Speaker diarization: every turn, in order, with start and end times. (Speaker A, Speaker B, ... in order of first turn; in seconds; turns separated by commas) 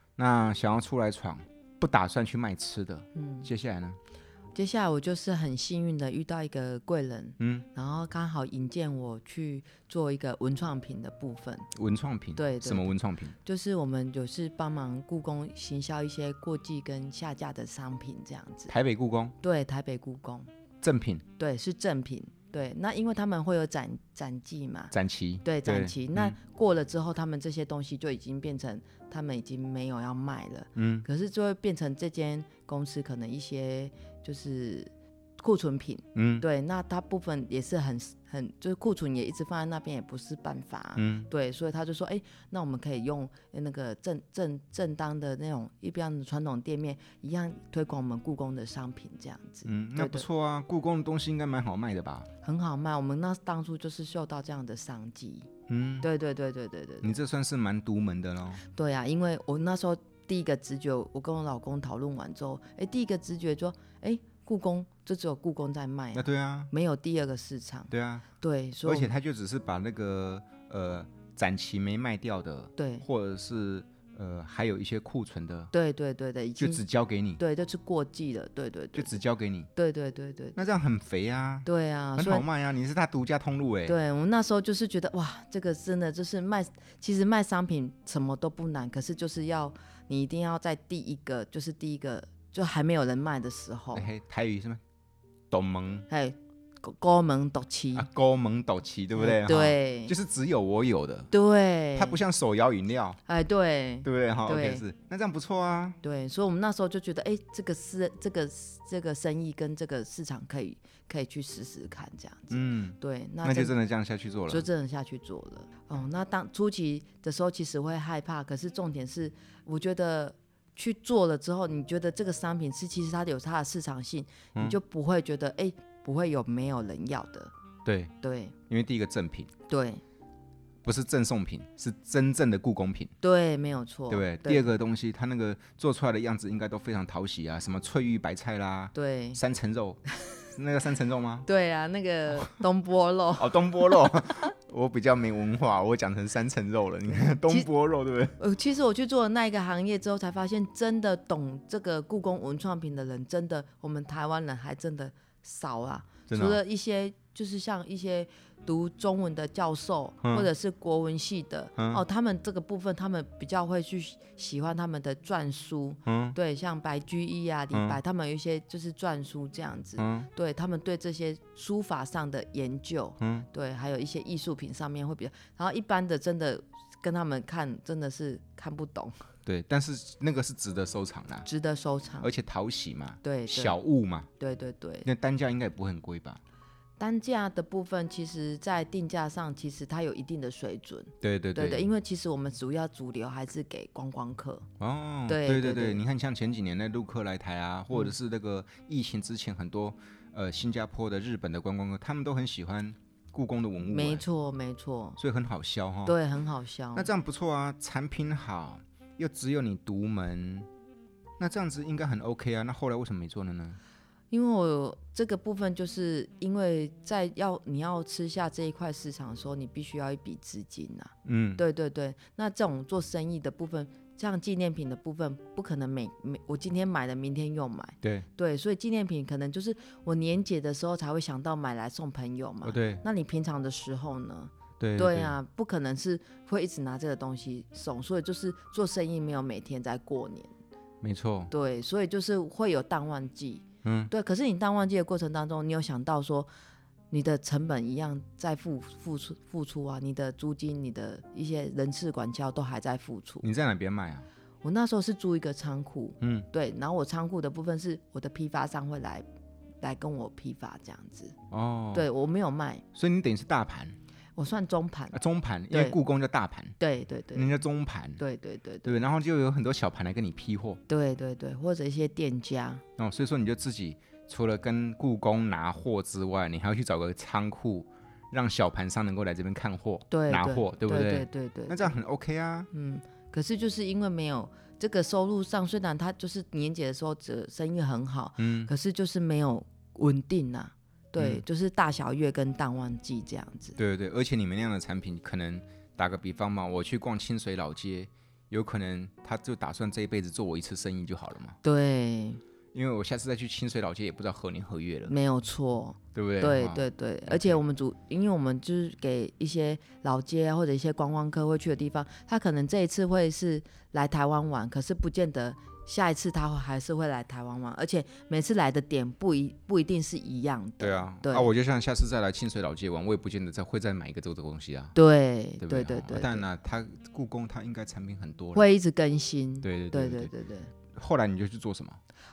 Speaker A: 0.2-4.0, Speaker B: 3.1-3.5, Speaker B: 4.5-11.7, Speaker A: 7.4-7.7, Speaker A: 11.7-13.3, Speaker B: 12.3-18.7, Speaker A: 18.7-19.3, Speaker B: 19.4-20.5, Speaker A: 20.8-21.2, Speaker B: 21.4-24.9, Speaker A: 24.9-26.4, Speaker B: 25.4-50.2, Speaker A: 30.8-31.1, Speaker A: 36.1-36.5, Speaker A: 41.0-41.3, Speaker A: 49.6-52.3, Speaker B: 52.4-55.5, Speaker A: 55.7-56.1, Speaker B: 56.0-57.2, Speaker A: 57.0-58.6, Speaker B: 58.7-69.1, Speaker A: 66.1-66.7, Speaker A: 67.9-68.3, Speaker A: 68.8-75.7, Speaker B: 72.8-73.0, Speaker B: 75.7-76.8, Speaker A: 76.6-77.4, Speaker B: 77.4-79.2, Speaker A: 78.9-79.7, Speaker B: 79.8-80.6, Speaker A: 80.5-84.0, Speaker B: 81.7-82.5, Speaker B: 83.8-94.1, Speaker A: 93.9-94.8, Speaker A: 95.5-96.1, Speaker B: 96.1-98.1, Speaker A: 97.9-101.3, Speaker B: 99.1-100.1, Speaker B: 101.3-102.2, Speaker A: 102.0-103.2, Speaker B: 103.3-104.8, Speaker A: 104.0-106.0, Speaker B: 106.0-113.7, Speaker A: 112.5-114.7, Speaker B: 114.5-127.5, Speaker A: 127.8-128.1, Speaker B: 128.2-128.5, Speaker A: 128.7-129.5, Speaker B: 129.7-130.0, Speaker A: 130.8-133.1, Speaker B: 133.2-134.7, Speaker A: 134.1-140.0, Speaker B: 138.9-139.4, Speaker A: 140.5-141.4, Speaker B: 141.4-144.3, Speaker A: 143.4-148.4, Speaker B: 148.4-179.3, Speaker A: 156.3-156.6, Speaker A: 160.2-160.5, Speaker A: 161.8-162.0, Speaker A: 166.1-166.3, Speaker A: 167.7-168.0, Speaker A: 170.0-170.3, Speaker A: 173.2-173.5, Speaker A: 179.4-181.5, Speaker B: 181.4-182.3, Speaker A: 182.2-184.3, Speaker B: 183.2-183.8, Speaker B: 184.4-185.1, Speaker A: 185.0-186.4, Speaker B: 187.0-194.7, Speaker A: 191.2-191.9, Speaker A: 194.8-204.2, Speaker B: 195.3-196.0, Speaker B: 203.8-205.2, Speaker A: 205.2-206.2, Speaker B: 206.1-207.1, Speaker A: 206.9-210.7, Speaker A: 211.4-213.8, Speaker B: 214.3-240.5, Speaker A: 221.2-221.6, Speaker A: 228.0-228.3, Speaker A: 232.6-233.0, Speaker A: 234.8-235.3, Speaker A: 241.0-241.5, Speaker B: 241.5-246.5, Speaker A: 243.8-244.1, Speaker B: 247.1-253.4, Speaker A: 253.4-254.3, Speaker B: 254.6-259.2, Speaker A: 256.2-256.5, Speaker B: 259.8-261.3, Speaker A: 261.5-262.1, Speaker B: 261.9-262.8, Speaker A: 262.9-264.0, Speaker B: 264.4-265.1, Speaker A: 265.1-266.8, Speaker B: 265.7-266.0, Speaker B: 266.8-267.5, Speaker A: 267.3-268.2, Speaker B: 268.2-268.9, Speaker A: 268.8-270.8, Speaker B: 270.9-272.8, Speaker A: 273.0-282.7, Speaker B: 280.1-281.9, Speaker B: 282.7-293.8, Speaker A: 288.4-288.7, Speaker A: 291.2-291.4, Speaker A: 293.8-301.6, Speaker B: 301.6-302.4, Speaker A: 302.7-305.1, Speaker B: 305.1-321.5, Speaker A: 306.1-307.6, Speaker A: 320.8-324.9, Speaker B: 324.9-326.4, Speaker A: 325.6-328.7, Speaker B: 328.5-330.7, Speaker A: 329.6-330.3, Speaker A: 330.9-332.0